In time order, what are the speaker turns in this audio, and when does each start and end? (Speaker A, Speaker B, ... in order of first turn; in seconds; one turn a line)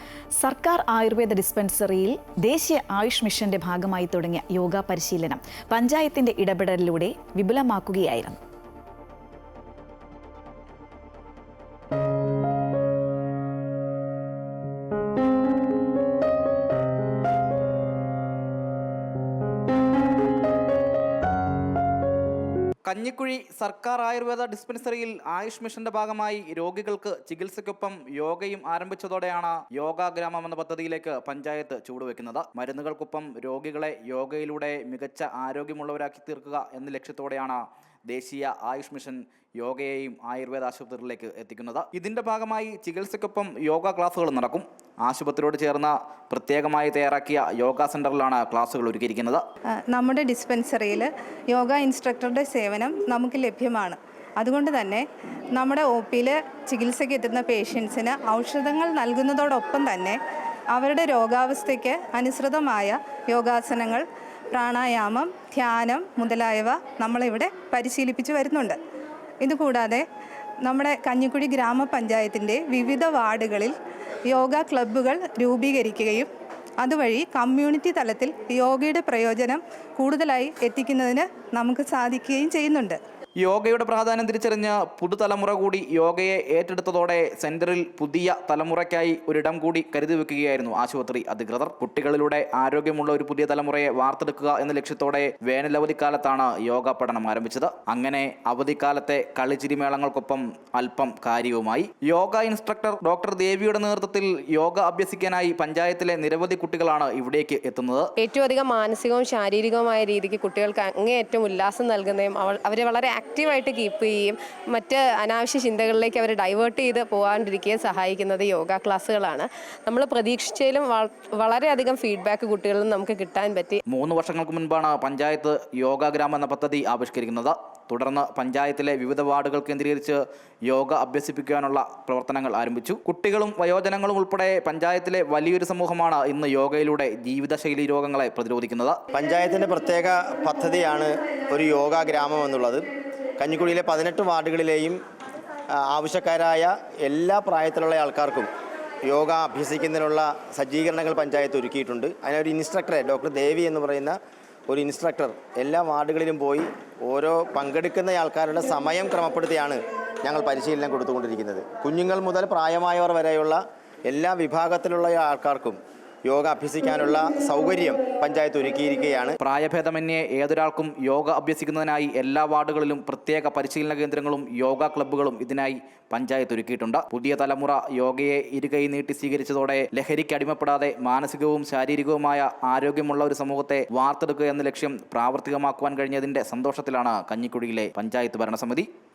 Speaker A: 0.4-8.4
Speaker B: 22.9-49.4
Speaker C: 49.9-60.2
Speaker C: 60.8-68.8
Speaker C: 69.4-70.0
Speaker C: 70.6-73.8
Speaker C: 74.3-76.3
Speaker C: 76.8-83.0
Speaker B: 83.4-108.1
Speaker D: 108.2-123.8
Speaker B: 123.9-139.0
Speaker E: 139.1-142.9
Speaker E: 143.4-145.0
Speaker E: 145.8-148.5
Speaker E: 149.1-154.2
Speaker E: 154.7-169.4
Speaker B: 169.4-188.9